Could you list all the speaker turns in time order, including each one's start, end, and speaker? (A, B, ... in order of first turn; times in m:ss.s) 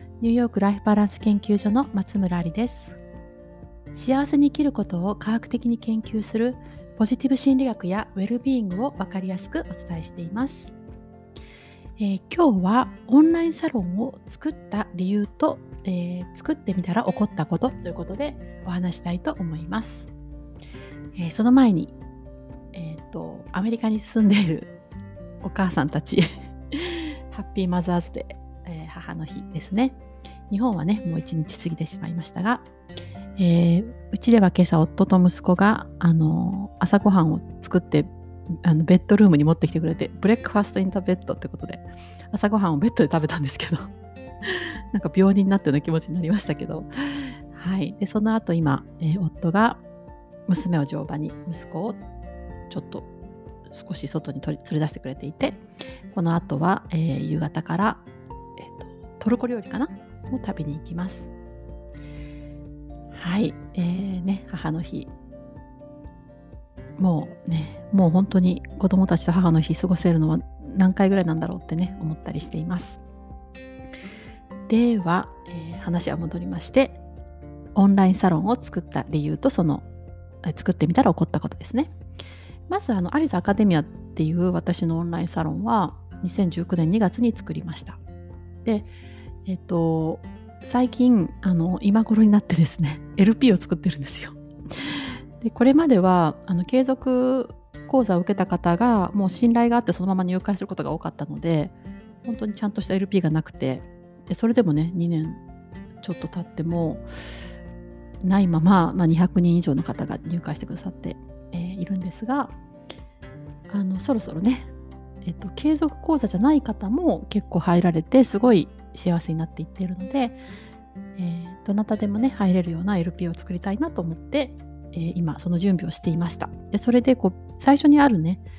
0:00.2-0:03.0 A
0:03.9-0:10.7 A
0:12.0-0:20.1 A
0:21.2-0:21.9 A
0:22.7-0:24.7 A
0:25.4-0:30.0 A
0:30.5-0:32.6 A
0:33.4-0:43.9 A
0:44.4-0:49.8 A
0:50.5-0:52.0 A
0:52.7-0:53.1 A
0:53.7-0:58.0 A
0:58.6-1:01.3 A
1:03.1-1:05.1 A
1:07.0-1:13.0 A
1:14.7-1:17.0 A
1:17.7-1:19.9 A
1:20.4-1:21.9 A
1:22.7-1:28.0 A
1:28.6-1:28.9 A
1:29.4-1:45.4 A
1:46.0-1:47.0 A
1:48.2-1:52.5 A
1:53.7-1:54.7 A
1:55.2-2:00.4 A
2:01.2-2:08.4 A